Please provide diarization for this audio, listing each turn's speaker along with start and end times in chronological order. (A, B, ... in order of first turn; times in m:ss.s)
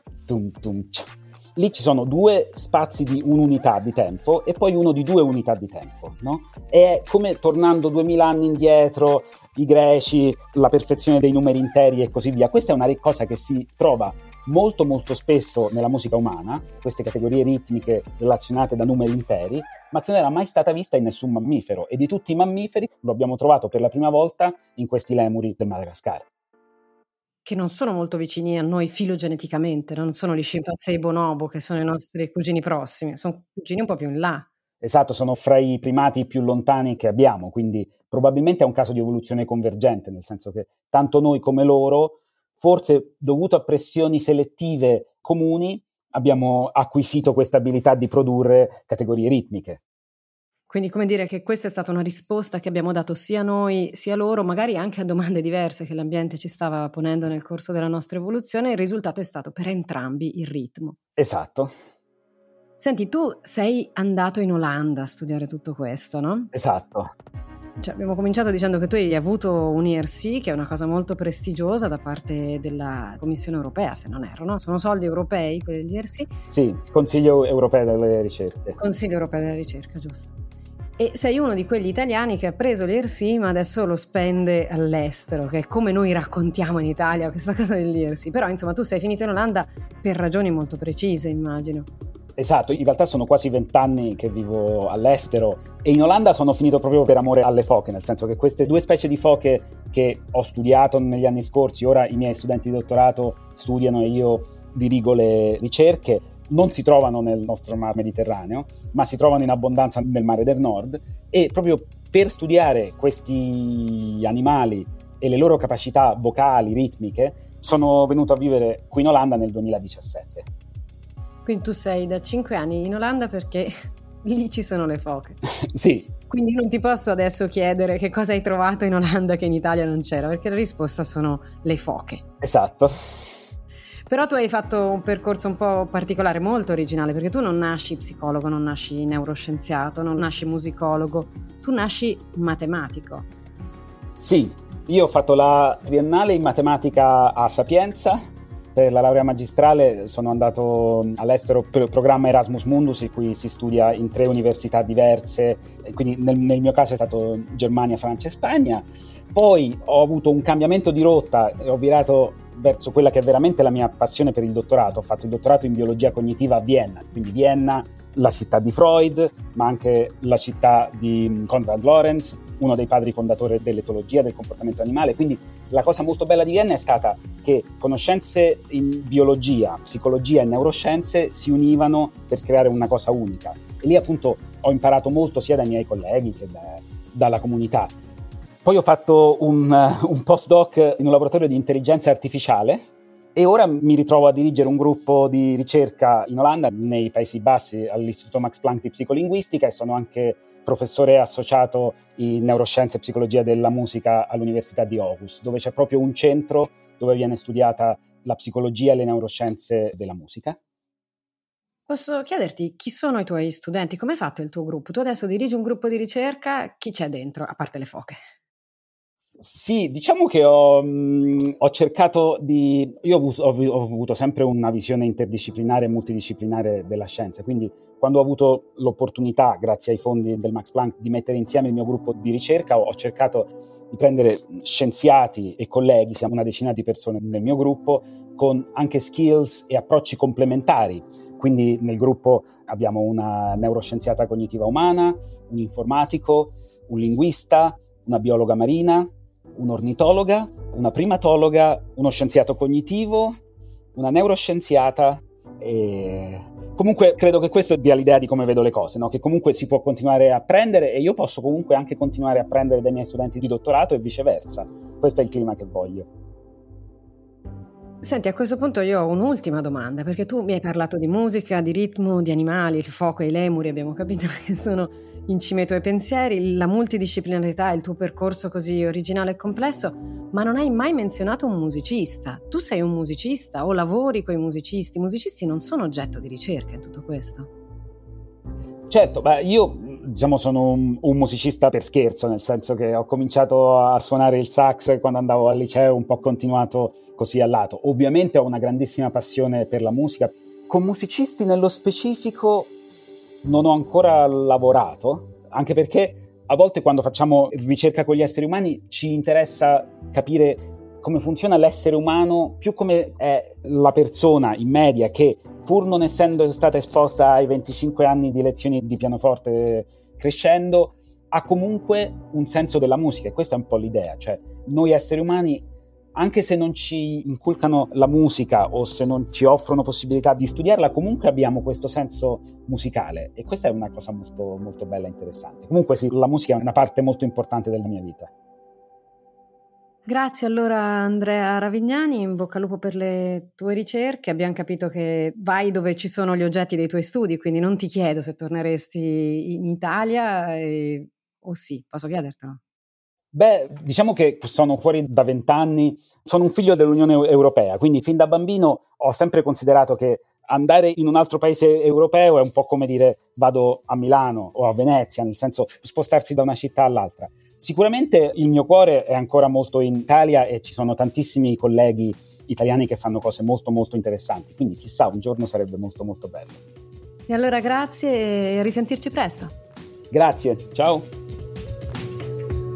0:00.3-0:26.3 A
0:27.4-0:34.5 B
0:34.8-0:49.8 A
0:50.7-1:01.0 B
1:01.2-1:01.7 A
1:02.8-1:06.5 B
1:06.5-1:07.1 A
1:07.8-1:16.3 B
1:16.5-1:18.8 A
1:18.8-1:20.4 B
1:21.0-1:31.9 B
1:32.4-2:00.5 A
2:01.4-2:05.4 B
2:05.6-2:06.1 A
2:06.3-2:12.2 B
2:12.4-2:12.9 A
2:14.1-2:23.3 B
2:24.2-2:28.2 A
2:28.8-3:08.0 A
3:08.6-3:12.8 A
3:13.4-3:30.6 A
3:31.9-3:38.2 B
3:39.4-4:13.4 A
4:14.0-4:26.1 A
4:28.0-4:47.5 B
4:48.9-5:02.7 A
5:03.4-5:38.3 A
5:40.1-5:52.6 B
5:53.3-6:16.6 A
6:17.3-6:19.5 B
6:20.1-6:21.1 A